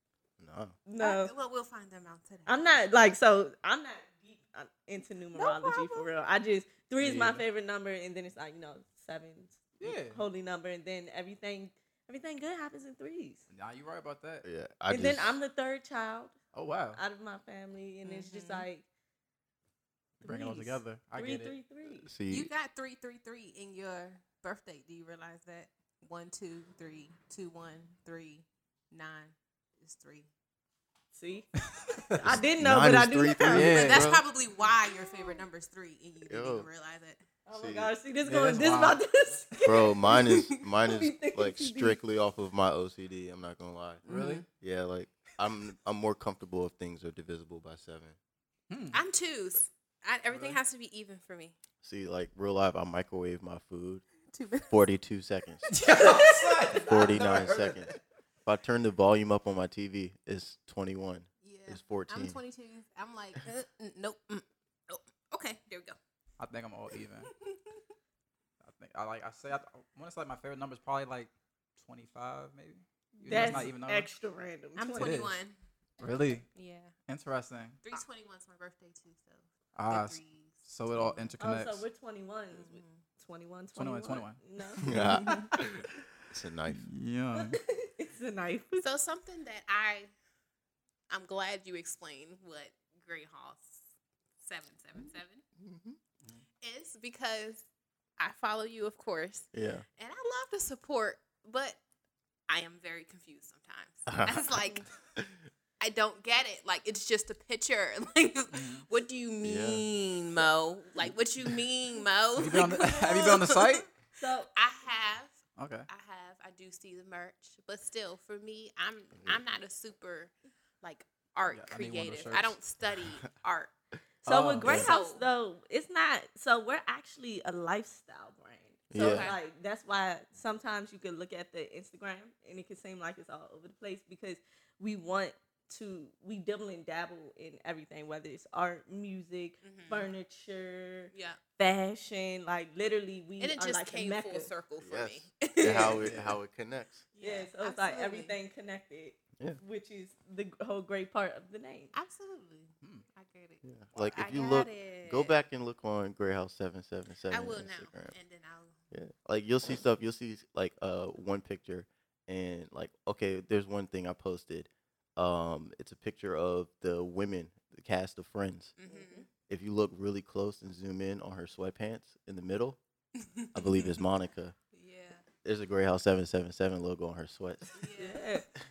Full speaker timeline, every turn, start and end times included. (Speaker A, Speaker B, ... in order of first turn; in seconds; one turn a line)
Speaker A: 0.4-0.8
Speaker B: 0.9-1.3
Speaker C: 1.0-2.7
Speaker B: 2.5-13.4
Speaker D: 5.4-6.1
Speaker D: 7.0-7.4
Speaker D: 9.8-10.2
Speaker D: 13.5-14.4
Speaker A: 14.4-15.4
Speaker B: 14.9-16.4
Speaker D: 16.5-17.0
Speaker B: 17.0-18.8
Speaker C: 18.0-18.7
Speaker D: 20.2-21.5
Speaker B: 20.2-22.1
Speaker A: 22.0-22.5
Speaker C: 22.3-30.3
Speaker B: 31.1-31.5
Speaker D: 31.9-32.4
Speaker B: 32.2-33.8
Speaker A: 32.2-34.2
Speaker D: 33.5-34.2
Speaker C: 33.6-37.2
Speaker A: 36.3-36.7
Speaker B: 37.5-42.0
Speaker A: 37.5-37.9
Speaker D: 38.2-39.0
Speaker A: 39.6-44.0
Speaker D: 44.1-44.4
Speaker C: 44.1-44.4
Speaker A: 44.6-48.2
Speaker D: 48.7-49.0
Speaker C: 48.9-51.5
Speaker D: 50.3-50.6
Speaker A: 51.8-54.0
Speaker C: 54.3-54.8
Speaker A: 54.7-55.8
Speaker D: 55.7-58.0
Speaker A: 56.8-57.9
Speaker A: 58.5-62.4
Speaker C: 61.4-66.0
Speaker D: 66.4-67.3
Speaker D: 68.6-74.1
Speaker B: 73.2-75.2
Speaker C: 73.3-73.7
Speaker C: 74.8-75.6
Speaker D: 75.0-75.3
Speaker D: 76.0-76.5
Speaker C: 76.5-76.9
Speaker D: 77.1-77.8
Speaker C: 77.8-81.3
Speaker D: 79.8-81.8
Speaker B: 81.4-84.8
Speaker C: 82.5-83.0
Speaker D: 83.8-84.4
Speaker A: 84.8-86.9
Speaker C: 85.1-85.5
Speaker D: 85.3-85.8
Speaker D: 86.7-87.6
Speaker B: 87.4-88.8
Speaker C: 88.8-90.1
Speaker C: 91.1-93.8
Speaker C: 94.4-95.4
Speaker A: 95.6-96.0
Speaker C: 96.6-97.7
Speaker C: 98.2-101.8
Speaker A: 99.5-99.8
Speaker C: 102.5-104.8
Speaker A: 104.1-104.5
Speaker C: 105.8-113.8
Speaker D: 108.5-108.8
Speaker A: 109.4-109.8
Speaker D: 112.4-113.9
Speaker B: 114.2-114.5
Speaker C: 114.5-115.3
Speaker D: 115.6-115.9
Speaker C: 115.9-123.7
Speaker D: 121.5-122.6
Speaker D: 124.2-124.8
Speaker B: 124.2-144.5
Speaker A: 124.6-124.9
Speaker C: 124.7-125.2
Speaker A: 128.9-129.3
Speaker C: 128.9-129.4
Speaker C: 139.6-140.1
Speaker C: 141.1-141.4
Speaker C: 143.4-146.0
Speaker A: 144.8-147.0
Speaker B: 145.6-146.0
Speaker D: 146.0-146.4
Speaker C: 147.1-148.3
Speaker B: 147.2-151.9
Speaker C: 151.9-155.4
Speaker A: 153.7-158.1
Speaker D: 153.9-154.2
Speaker C: 157.3-158.8
Speaker A: 158.9-168.7
Speaker C: 168.8-169.2
Speaker B: 168.9-169.3
Speaker A: 169.5-172.8
Speaker C: 173.2-174.0
Speaker A: 173.5-174.6
Speaker C: 174.7-175.3
Speaker A: 175.4-177.7
Speaker C: 177.8-178.3
Speaker B: 178.0-178.5